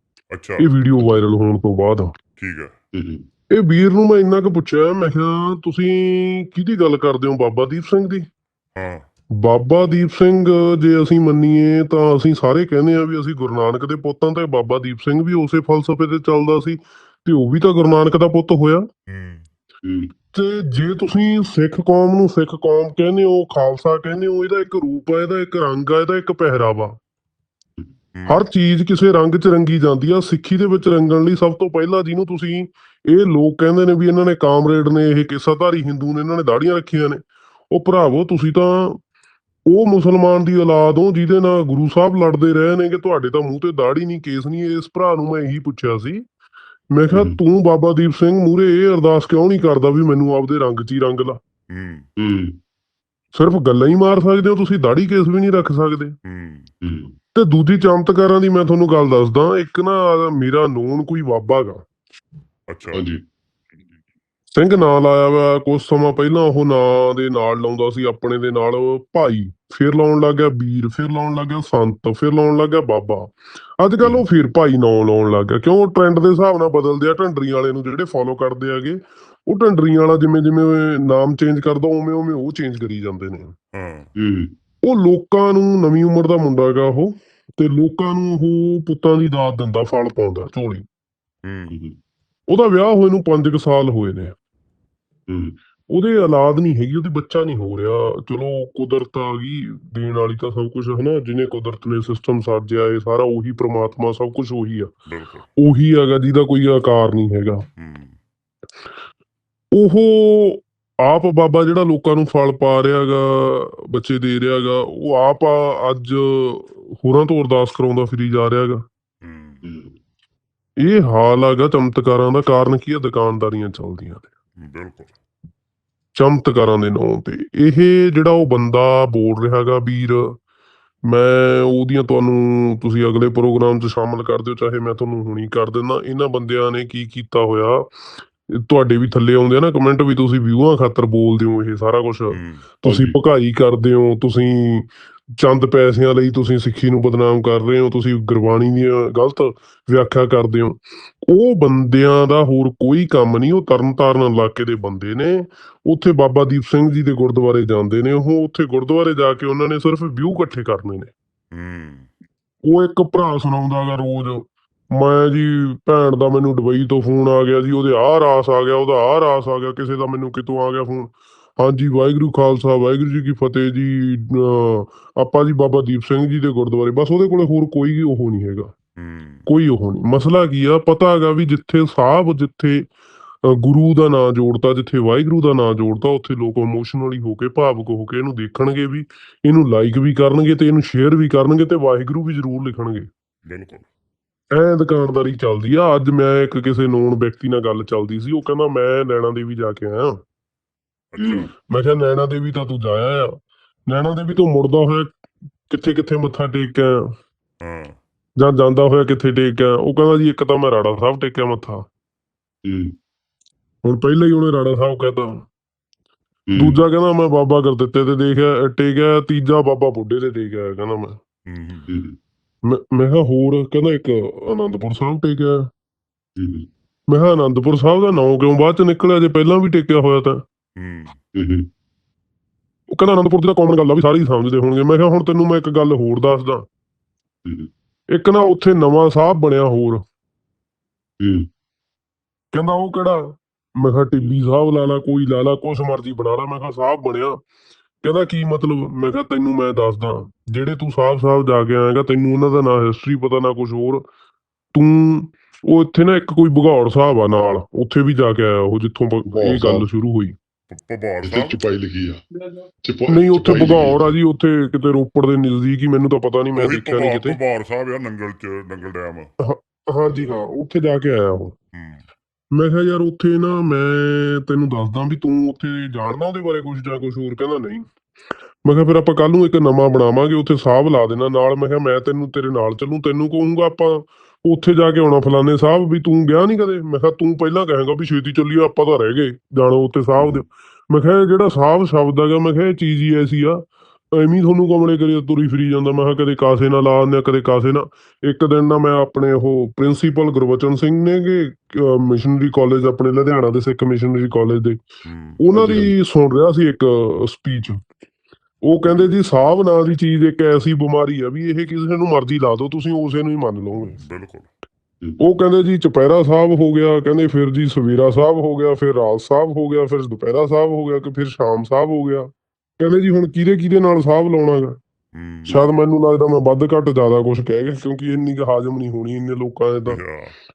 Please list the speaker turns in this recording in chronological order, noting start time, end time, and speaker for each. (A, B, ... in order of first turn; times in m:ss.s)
0:00.3-0:00.7 A
0:00.6-0:02.1 B
0:02.4-0:02.7 A
0:02.9-0:03.2 C
0:03.5-0:08.3 B
0:08.8-0:09.1 A
0:09.4-0:18.9 B
0:19.1-0:19.4 A
0:19.8-0:20.1 C
0:20.3-0:27.0 B
0:28.1-0:28.4 A
0:28.3-0:39.0 B
0:39.7-0:46.2 B
0:46.9-0:51.4 B
0:47.1-0:47.4 C
0:51.7-0:52.1 A
0:52.2-0:52.6 C
0:53.3-0:56.2 B
0:56.2-0:56.7 A
0:56.8-0:57.1 C
0:57.4-1:01.8 B
1:02.7-1:03.0 A
1:02.9-1:03.2 C
1:04.6-1:23.6 B
1:23.7-1:24.1 A
1:24.2-1:24.5 C
1:24.8-1:30.8 B
1:31.4-1:31.7 A
1:31.7-1:32.0 C
1:32.5-1:34.3 B
1:35.3-1:35.6 C
1:35.9-1:44.9 B
1:45.1-1:45.5 A
1:45.6-1:47.6 B
1:47.8-1:48.2 A
1:49.7-1:58.8 B
1:59.2-1:59.6 A
1:59.6-2:00.0 C
2:00.8-2:04.3 B
2:04.6-2:05.1 A
2:06.2-2:10.4 B
2:11.1-2:41.1 B
2:22.3-2:23.1 A
2:41.5-2:42.1 A
2:42.6-2:58.7 B
2:59.0-2:59.5 A
2:59.5-3:02.9 B
3:03.4-3:13.1 B
3:13.4-3:13.8 A
3:14.5-3:20.2 B
3:21.1-3:21.5 A
3:21.2-3:25.1 B
3:25.7-3:27.1 B
3:27.6-3:28.0 A
3:28.4-3:31.9 B
3:32.6-3:32.9 C
3:33.8-3:35.5 B
3:36.5-3:36.8 C
3:36.6-3:41.2 B
3:41.5-3:41.9 A
3:41.9-3:42.2 C
3:42.7-3:45.7 B
3:46.4-3:46.7 C
3:47.1-3:50.4 B
3:50.8-3:51.2 A
3:51.4-3:51.7 C
3:52.9-3:56.6 B
3:58.1-4:00.0 B
4:01.2-4:01.5 C
4:02.5-4:07.4 B
4:08.0-4:14.0 B
4:14.7-4:20.4 B
4:19.3-4:19.9 C
4:20.7-4:21.6 A
4:21.2-4:22.2 C
4:22.8-4:24.1 C
4:23.1-4:27.4 B
4:26.6-4:29.3 A
4:29.4-4:31.6 B
4:31.7-4:32.0 A
4:32.5-4:37.9 B
4:38.6-5:04.8 B
5:05.0-5:05.4 A
5:05.4-5:07.8 B
5:05.5-5:06.0 C
5:08.6-5:14.0 B
5:13.9-5:14.5 A
5:15.2-5:24.8 B
5:25.1-5:25.6 A
5:25.5-5:30.0 B
5:29.9-5:30.4 A